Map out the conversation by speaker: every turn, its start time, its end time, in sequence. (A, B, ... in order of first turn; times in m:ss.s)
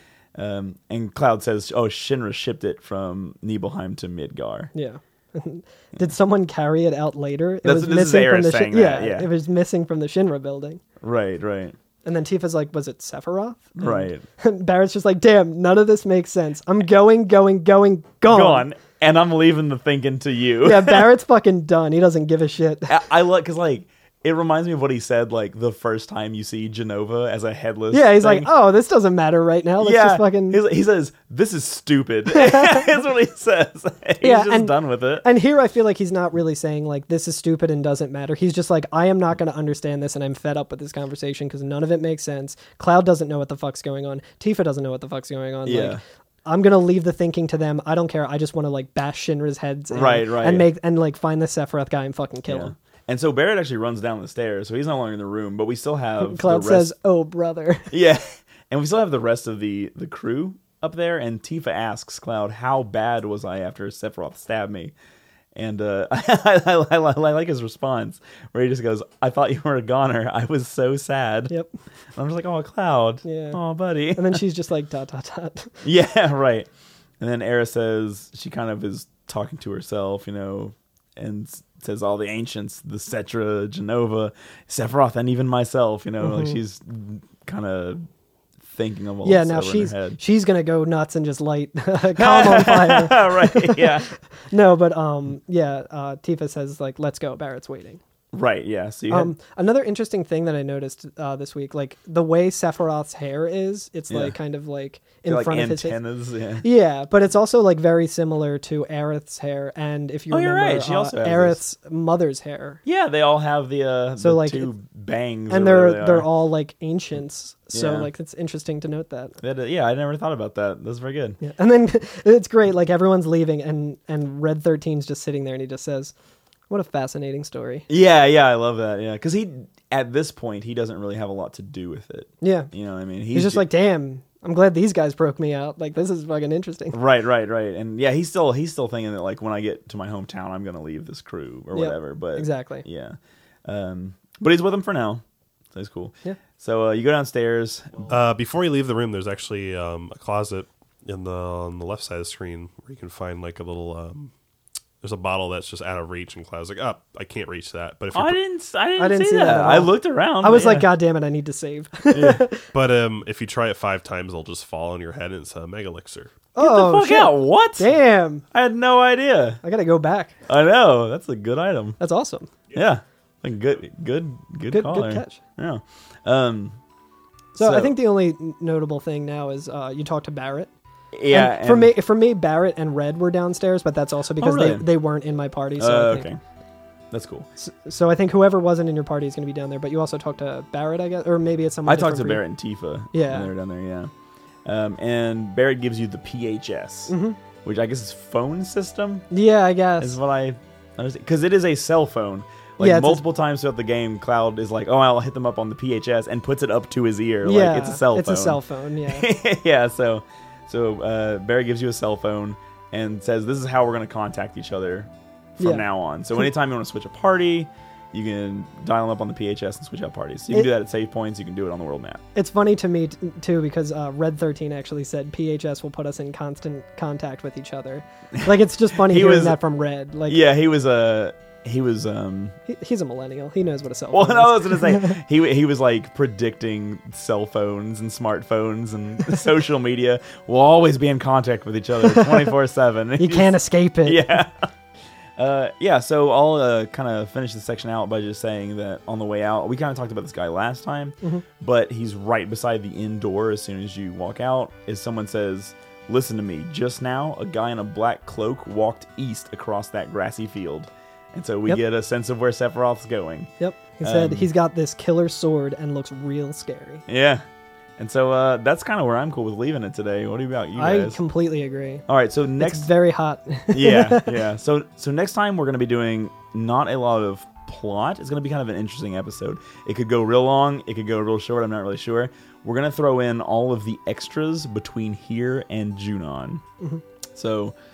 0:00.4-0:04.7 A
0:04.7-0:10.8 B
0:07.6-0:09.3 A
0:11.0-0:11.8 A
0:12.0-0:18.6 B
0:13.8-0:14.2 A
0:18.3-0:21.1 A
0:20.6-0:23.0 B
0:22.9-0:28.5 A
0:27.9-0:30.6 B
0:29.8-0:35.2 A
0:32.3-0:33.0 B
0:34.2-0:52.7 B
0:45.6-0:46.0 A
0:49.9-0:50.7 A
0:52.5-0:56.9 A
0:56.2-0:57.9 B
0:57.9-1:04.9 A
1:05.6-1:11.5 A
1:12.2-1:14.4 A
1:13.2-1:13.6 B
1:14.2-1:15.8 B
1:15.8-1:16.7 A
1:17.2-1:28.1 A
1:26.2-1:26.6 B
1:28.7-1:30.2 A
1:29.2-1:38.0 B
1:32.2-1:34.1 A
1:38.3-1:39.3 A
1:39.1-1:46.0 B
1:44.1-1:44.4 A
1:45.3-1:46.7 A
1:46.6-1:52.8 B
1:50.3-1:51.6 A
1:52.9-1:56.3 A
1:54.2-1:54.7 B
1:55.5-1:59.4 B
1:57.7-1:58.1 A
1:59.4-2:01.4 A
2:01.4-2:06.1 B
2:06.7-2:07.9 B
2:07.9-2:13.7 A
2:12.4-2:12.7 B
2:13.3-2:17.0 B
2:16.9-2:25.2 A
2:21.7-2:22.9 B
2:25.7-2:28.1 A
2:28.1-2:34.3 C
2:35.0-2:38.4 C
2:38.1-2:40.9 A
2:39.0-2:42.6 B
2:42.1-2:42.4 A
2:42.2-2:46.4 C
2:46.6-2:48.4 B
2:46.6-2:47.9 A
2:48.5-2:49.6 A
2:49.6-2:50.4 B
2:50.5-2:52.0 A
2:52.0-2:52.5 B
2:52.7-2:56.8 A
2:54.7-2:55.4 B
2:57.6-3:00.7 B
2:57.6-2:57.9 A
3:01.1-3:01.9 A
3:01.3-3:06.3 B
3:04.4-3:04.9 A
3:05.8-3:06.4 A
3:07.1-3:07.5 A
3:07.6-3:12.4 B
3:11.9-3:14.1 A
3:13.1-3:13.5 B
3:14.6-3:19.3 A
3:17.1-3:17.4 B
3:19.3-3:20.2 B
3:20.0-3:42.2 A
3:22.8-3:23.2 B
3:27.4-3:29.3 B
3:35.6-3:35.8 B
3:42.4-3:50.4 B
3:48.4-3:49.6 A
3:50.3-3:52.6 A
3:52.7-3:55.2 B
3:54.1-4:04.6 A
4:02.1-4:02.5 B
4:03.2-4:04.4 B
4:05.4-4:23.5 A
4:23.6-4:27.0 B
4:24.0-4:24.5 A
4:27.1-4:27.4 A
4:28.0-4:31.2 A
4:30.8-4:32.1 B
4:32.1-4:32.9 A
4:32.6-4:34.4 B
4:33.7-4:46.6 A
4:47.4-4:47.8 A